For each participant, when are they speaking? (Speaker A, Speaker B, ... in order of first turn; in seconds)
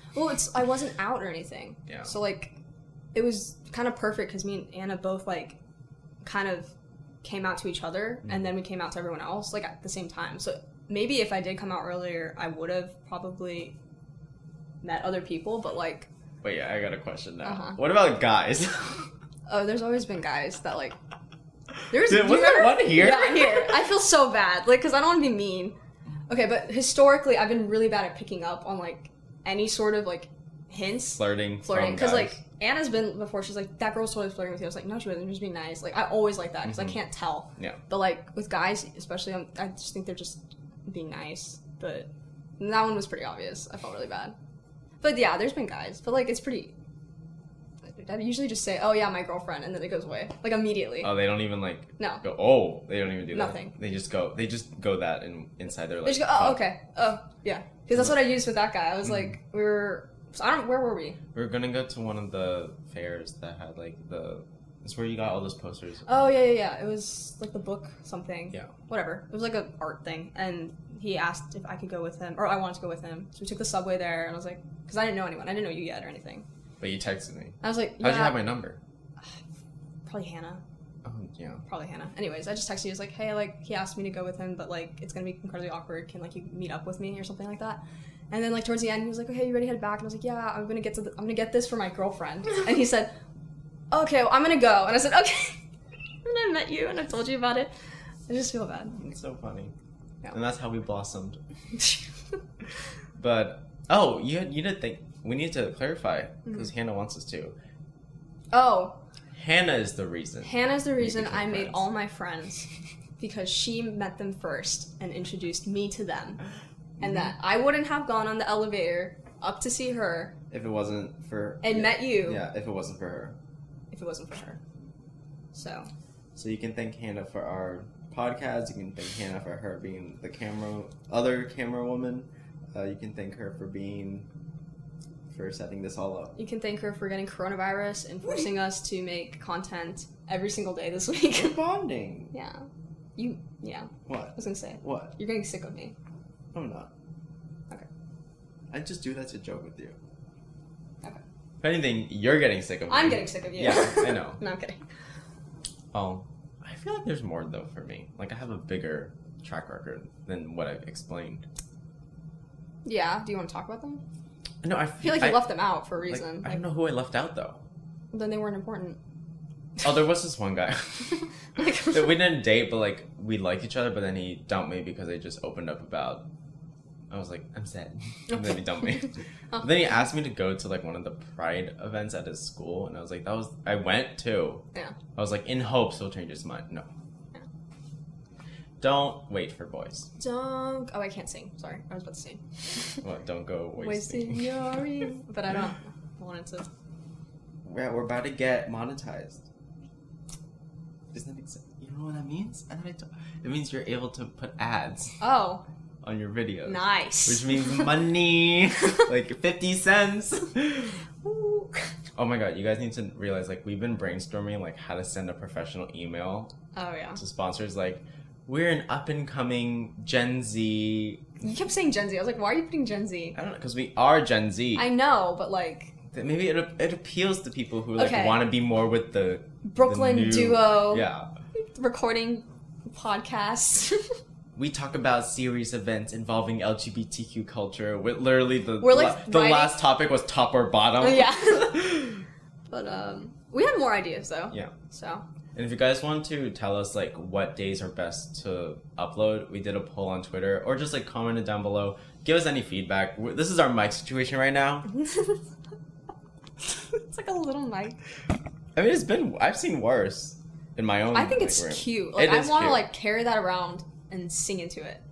Speaker A: 0.1-2.5, 3.1-5.6, 6.2-6.7, 7.2-13.8, 14.8-16.1, 17.4-17.8, 19.5-20.9, 21.9-25.8, 26.3-44.4, 45.0-46.7, 47.9-51.2, 52.0-52.2, 53.3-53.7, 56.0-61.2, 66.1-76.5, 77.6-78.5, 80.0-80.6, 81.7-93.2, 93.9-95.6, 96.2-97.7, 98.3-99.0, 108.5-109.0, 110.4-112.7, 113.2-116.4, 117.0-120.3, 121.6-122.4, 123.9-124.6, 125.5-125.9, 136.4-141.6, 142.3-142.6, 143.2-145.9, 152.9-154.8, 162.8-164.0, 165.0-166.6, 168.1-169.0, 171.6-172.1, 178.3-178.6, 190.2-193.0, 193.8-196.7, 205.2-205.6, 206.7-207.5, 211.2-211.9, 216.7-217.2, 221.4-223.4, 224.8-225.9, 228.0-228.4, 229.7-231.1, 231.6-234.1, 238.8-239.8, 241.0-242.0, 242.7-245.2, 254.9-255.4, 256.9-258.0, 261.1-265.0
Speaker B: 16.4-19.1, 21.9-23.8, 31.2-32.4, 36.6-37.0, 51.0-56.6, 61.4-66.3, 76.8-78.8, 81.0-81.6, 99.0-99.7, 100.3-101.4, 103.2-107.5, 109.3-111.8, 117.0-117.3, 120.5-123.4, 126.3-134.3, 135.3-136.3, 141.3-142.3, 144.1-145.1, 146.5-146.9, 148.7-150.0, 151.6-154.4, 155.9-161.4, 164.6-167.6, 169.8-171.2, 171.9-176.2, 177.1-184.6, 185.2-186.9, 188.8-190.1, 193.0-194.4, 197.6-199.4, 201.1-205.2, 206.0-211.0, 212.2-216.5, 217.2-221.2, 223.3-224.9, 226.1-231.3, 234.6-242.2, 245.6-254.9, 258.8-262.9